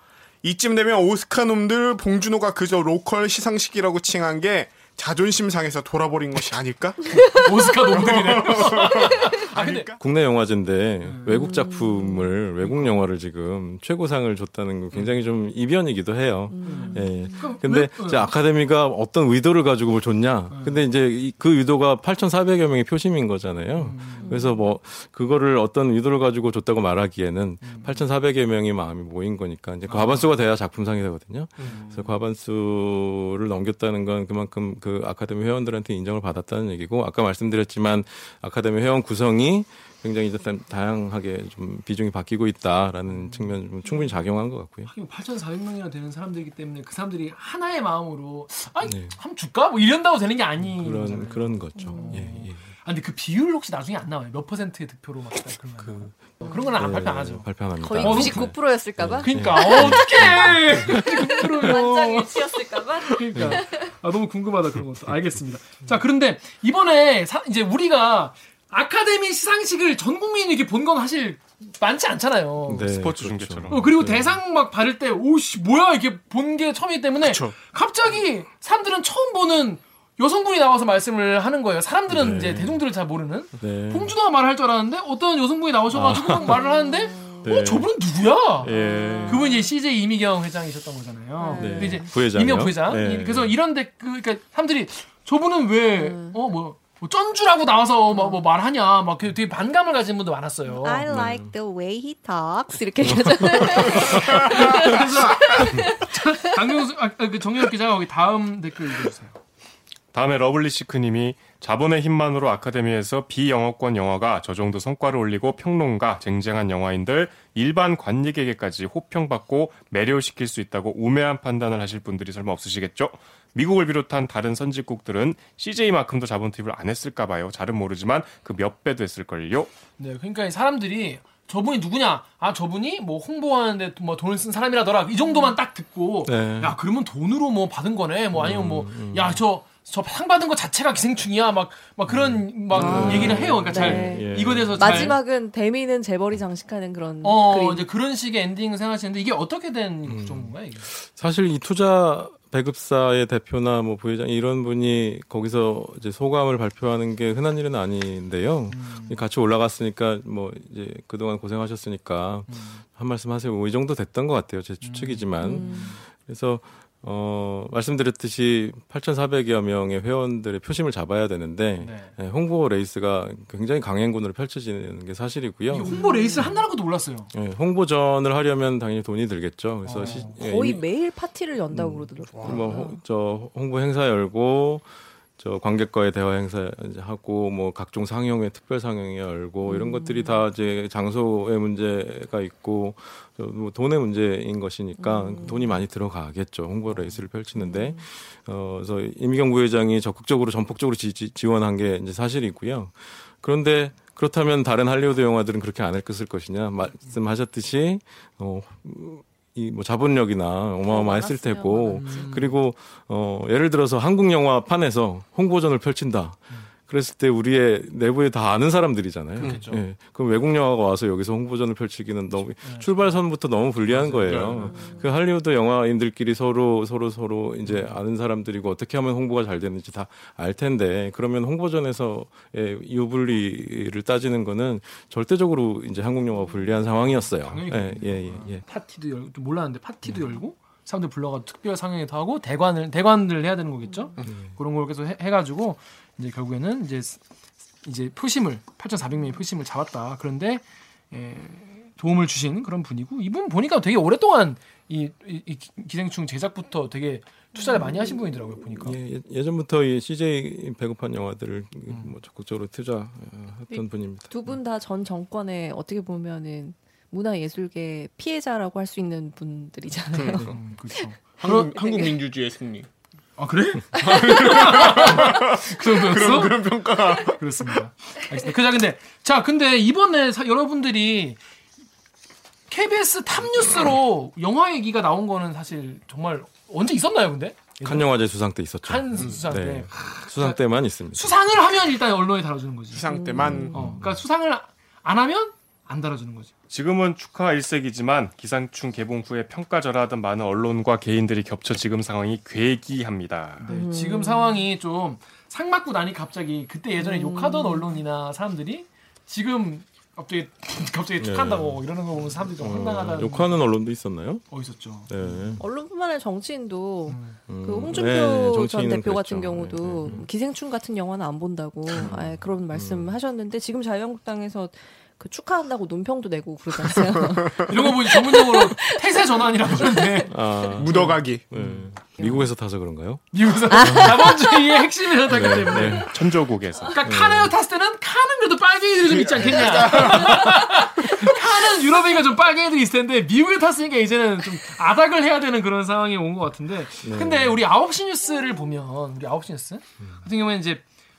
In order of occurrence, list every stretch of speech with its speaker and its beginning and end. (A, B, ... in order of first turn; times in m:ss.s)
0:00.4-0:10.0 A
0:07.1-0:09.9 B
0:10.0-0:44.9 C
0:11.0-0:11.4 B
0:11.3-0:12.3 D
0:12.6-0:13.0 B
0:16.5-0:17.5 D
0:16.6-0:18.3 B
0:20.5-0:20.8 B
0:23.8-0:24.4 B
0:24.2-0:24.6 D
0:27.6-0:28.0 B
0:29.9-0:30.3 B
0:31.6-0:32.0 B
0:43.1-0:43.6 B
0:44.9-1:12.9 B
0:48.8-0:49.2 C
0:50.6-0:52.6 C
0:51.8-0:52.3 D
0:55.8-1:01.0 C
0:56.4-0:56.8 D
0:57.8-1:00.1 D
1:00.9-1:03.8 D
1:03.4-1:03.6 C
1:12.6-1:14.4 C
1:12.8-1:13.9 E
1:13.7-1:41.1 B
1:17.2-1:17.5 A
1:22.1-1:22.8 C
1:23.6-1:24.1 C
1:25.9-1:26.6 C
1:26.5-1:27.5 D
1:27.4-1:27.9 C
1:28.6-1:29.5 C
1:28.6-1:29.7 D
1:31.4-1:32.1 D
1:31.5-1:33.6 C
1:36.0-1:36.4 D
1:38.1-1:38.4 D
1:40.7-1:46.3 D
1:41.1-1:41.5 C
1:43.0-1:44.1 C
1:43.7-1:49.4 B
1:50.1-2:09.7 E
2:10.0-2:25.2 B
2:16.2-2:16.8 C
2:18.3-2:19.4 C
2:22.1-2:25.2 C
2:22.7-2:27.8 D
2:27.2-2:30.9 B
2:30.0-2:55.9 C
2:38.7-2:39.2 B
2:42.5-2:42.8 B
2:44.8-2:46.0 B
2:45.4-2:45.9 D
2:51.8-2:52.1 B
2:55.7-2:57.3 B
2:55.8-2:56.6 D
2:57.3-3:00.8 C
2:59.8-3:00.4 B
3:00.0-3:03.0 D
3:01.7-3:58.6 C
3:02.3-3:02.6 A
3:09.6-3:10.4 D
3:15.0-3:15.7 D
3:17.6-3:18.0 D
3:30.9-3:32.3 D
3:31.9-3:32.6 B
3:39.4-3:39.8 B
3:39.4-3:39.8 A
3:42.6-3:43.1 B
3:44.2-3:44.7 A
3:44.2-3:44.6 B
3:44.6-3:45.1 D
3:47.7-3:47.9 B
3:57.4-4:07.2 B
4:04.2-4:04.6 C
4:07.8-4:19.0 B
4:17.5-4:18.2 D
4:18.8-4:24.3 C
4:21.9-4:22.1 B
4:23.7-4:31.0 D
4:30.2-4:30.4 A
4:30.4-4:31.8 B
4:31.4-4:32.9 A
4:33.4-4:36.7 B
4:34.0-4:37.6 A
4:34.1-4:34.7 D
4:37.3-4:41.4 B
4:42.7-4:48.1 B
4:47.8-4:51.5 C
4:48.8-4:53.0 B
4:52.9-4:53.8 A
4:53.0-4:53.9 D
4:53.7-4:56.5 B
4:53.7-4:54.2 C
4:56.7-5:03.7 E
5:03.6-5:13.6 B
5:03.6-5:04.6 D
5:07.0-5:08.0 D
5:11.2-5:11.8 C
5:12.6-5:14.5 C
5:14.5-5:15.4 B
5:15.1-5:15.7 C
5:15.6-5:30.3 D
5:17.1-5:17.4 B
5:17.5-5:20.3 C
5:21.9-5:23.2 C
5:27.1-5:27.7 A
5:27.6-5:31.8 B
5:30.3-5:34.4 C
5:30.7-5:31.5 A
5:32.2-5:32.5 D
5:33.3-5:36.2 B
5:33.8-5:34.4 D
5:35.2-5:36.2 C
5:35.9-5:37.0 E
5:36.8-5:50.8 B
5:37.0-5:37.5 C
5:39.0-5:40.8 A
5:47.0-5:47.6 C